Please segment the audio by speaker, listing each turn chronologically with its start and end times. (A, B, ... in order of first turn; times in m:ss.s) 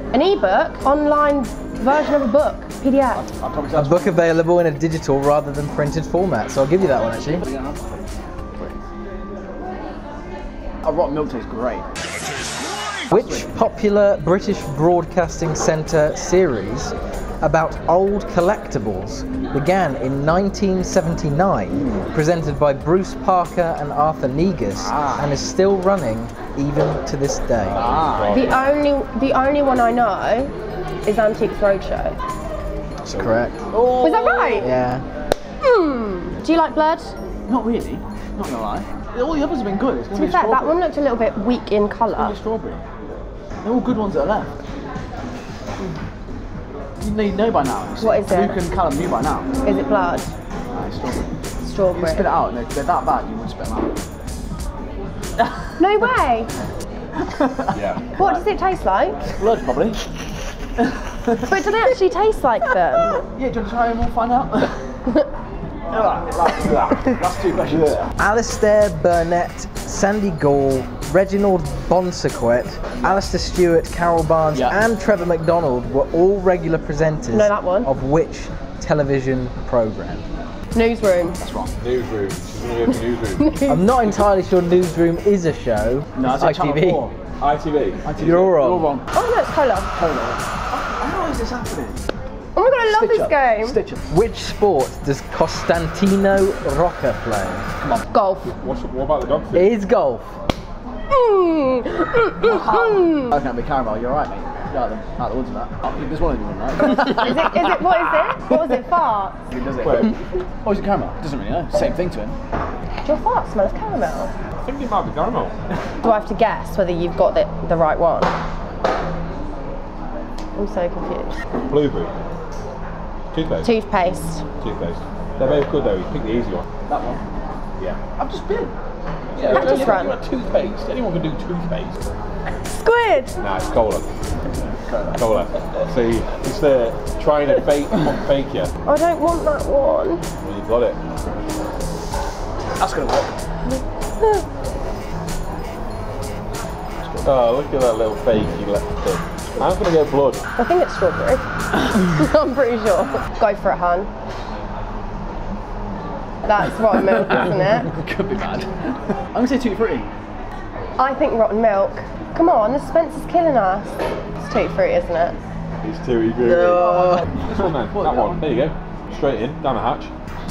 0:00.1-0:03.2 A
0:03.1-0:04.3 B
0:03.7-0:07.4 C
0:07.2-0:08.8 B
0:10.8-0:11.9 B
0:13.1-0:27.9 C
0:13.1-0:13.5 B
0:21.7-0:22.1 B
0:24.8-0:25.3 B
0:27.6-0:28.7 D
0:27.7-0:28.5 B
0:28.3-0:30.5 A
0:31.0-0:32.2 A
0:33.0-0:33.6 C
0:33.2-0:34.7 B
0:34.0-0:34.7 A
0:34.6-0:35.0 C
0:35.6-0:37.1 A
0:37.5-0:40.8 B
0:40.1-0:42.3 A
0:42.1-0:42.8 B
0:43.6-0:44.5 B
0:47.0-0:49.5 B
0:48.0-0:48.6 A
0:49.6-0:50.3 A
0:50.7-0:51.3 B
0:51.6-0:52.3 A
0:51.9-0:54.0 B
0:55.8-0:56.5 A
0:57.2-0:58.4 B
0:57.7-0:58.0 D
0:58.2-0:59.2 A
0:59.4-1:00.0 B
1:00.8-1:01.8 B
1:01.4-1:03.2 A
1:03.0-1:04.8 B
1:05.9-1:08.1 B
1:08.2-1:20.2 C
1:13.0-1:13.2 B
1:14.5-1:14.8 B
1:17.3-1:17.9 A
1:20.7-1:21.4 A
1:21.4-1:21.7 B
1:21.8-1:23.6 D
1:23.4-1:23.9 A
1:23.7-1:27.0 C
1:26.1-1:27.2 B
1:27.4-1:28.3 D
1:28.0-1:29.1 B
1:28.2-1:28.9 C
1:29.1-1:29.9 A
1:29.9-1:32.0 B
1:32.5-1:33.8 A
1:32.9-1:34.0 B
1:34.1-1:37.7 C
1:37.8-1:38.0 B
1:38.1-1:38.5 A
1:38.4-1:39.7 D
1:39.5-1:40.3 C
1:41.1-1:43.3 A
1:42.4-1:48.6 B
1:46.8-1:49.4 A
1:49.5-1:52.4 B
1:49.8-1:50.2 D
1:53.0-1:54.3 A
1:54.6-1:55.5 D
1:56.0-1:58.3 A
2:00.6-2:01.3 A
2:01.7-2:02.1 D
2:03.3-2:03.7 D
2:03.6-2:04.4 A
2:04.6-2:06.7 D
2:06.9-2:07.2 B
2:08.2-2:08.7 B
2:09.3-2:12.0 D
2:09.4-2:10.0 B
2:09.5-2:10.2 A
2:12.5-2:13.4 A
2:13.4-2:14.1 D
2:14.8-2:15.4 B
2:15.2-2:18.7 D
2:18.8-2:20.2 A
2:20.4-2:21.0 D
2:22.8-2:23.4 B
2:23.7-2:24.4 A
2:27.0-2:27.4 B
2:27.2-2:30.4 D
2:30.5-2:34.1 A
2:36.4-2:37.9 A
2:37.0-2:40.0 B
2:41.0-2:45.4 A
2:45.8-2:50.1 D
2:46.4-2:48.6 B